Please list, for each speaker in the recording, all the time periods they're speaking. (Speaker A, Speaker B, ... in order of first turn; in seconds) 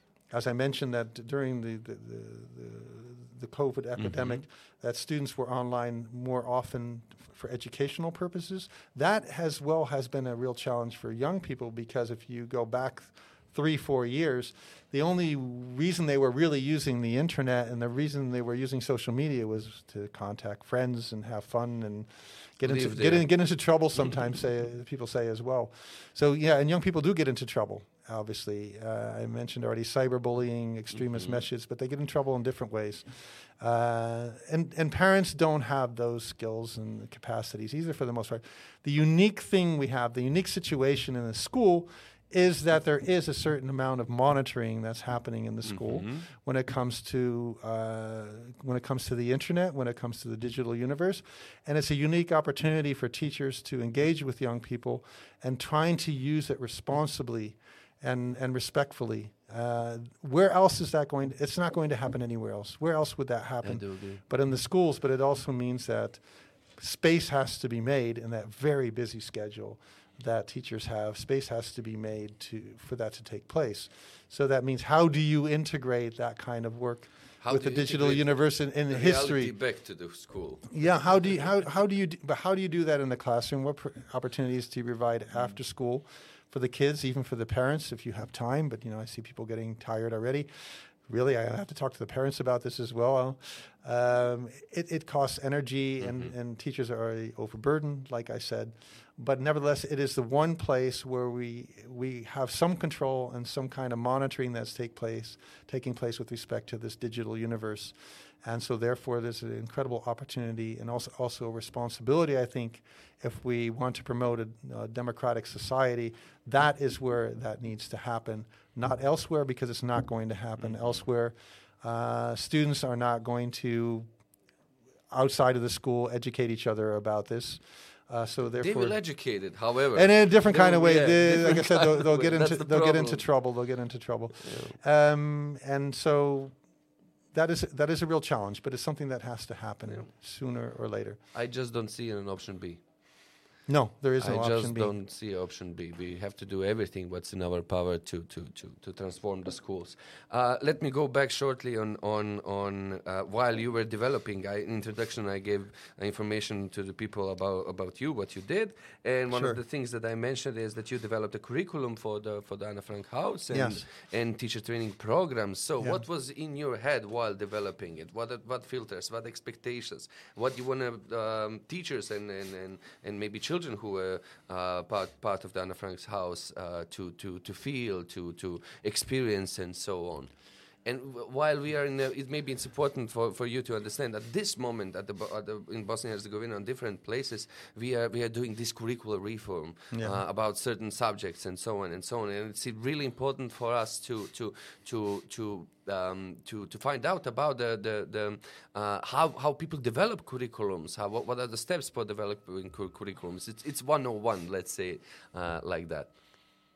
Speaker A: 0.3-66.2, 66.8-79.5, 80.7-124.1, 125.1-129.0, 129.9-136.6, 137.3-141.2, 143.7-144.9, 159.3-159.6, 163.5-163.8, 189.9-190.2
Speaker B: 4.0-4.4, 22.6-23.3, 31.1-31.4, 45.7-46.3, 63.6-64.2, 77.4-80.7, 120.6-121.0, 128.6-133.3, 134.4-134.8, 141.3-142.8, 144.2-180.3, 180.8-206.1